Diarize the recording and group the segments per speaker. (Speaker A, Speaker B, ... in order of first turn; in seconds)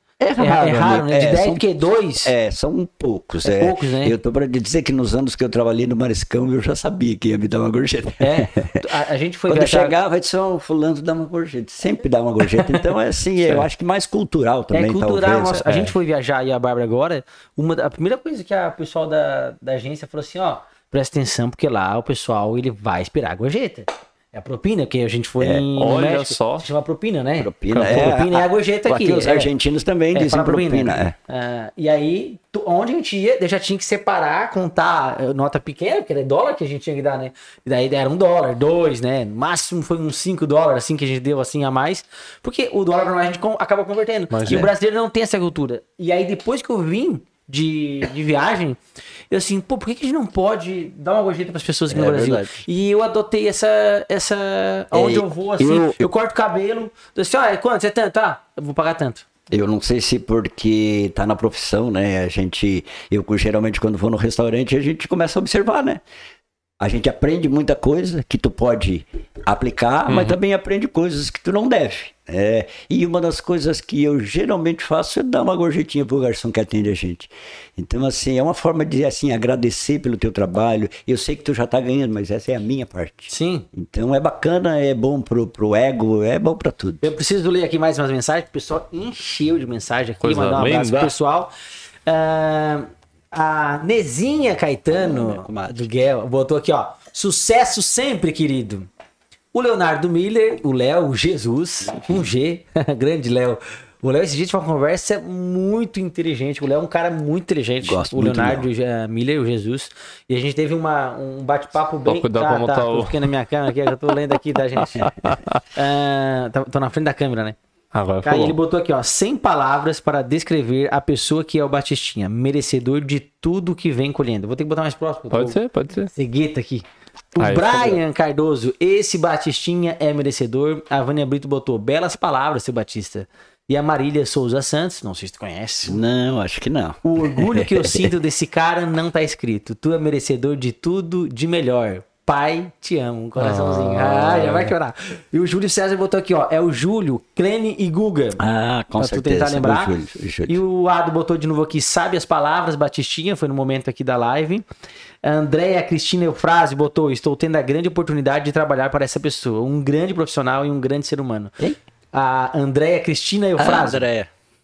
Speaker A: 0.2-1.7, 2.2-8.8, 9.5-15.7, 25.4-25.6, 27.4-31.1, 51.9-52.6, 54.9-56.1, 59.5-66.0, 66.8-87.1, 94.9-95.8, 102.0-102.2, 107.8-108.7, 135.9-138.1, 148.4-150.6, 163.6-164.3
Speaker B: 0.4-2.3, 3.4-4.2, 8.2-9.9, 14.7-29.5, 30.1-48.8, 49.3-59.3, 83.3-83.7, 87.0-91.5, 92.1-98.9, 99.5-117.6, 118.2-125.6, 126.1-136.0, 137.1-148.4, 149.0-149.9, 150.5-154.7, 155.2-161.5, 162.1-164.0
Speaker C: 15.7-15.9, 25.8-26.7, 27.7-28.0, 44.3-44.7, 70.1-70.4, 90.2-91.1, 112.0-113.3, 115.0-115.6, 117.9-118.6, 125.3-126.1, 127.4-128.0, 143.4-144.7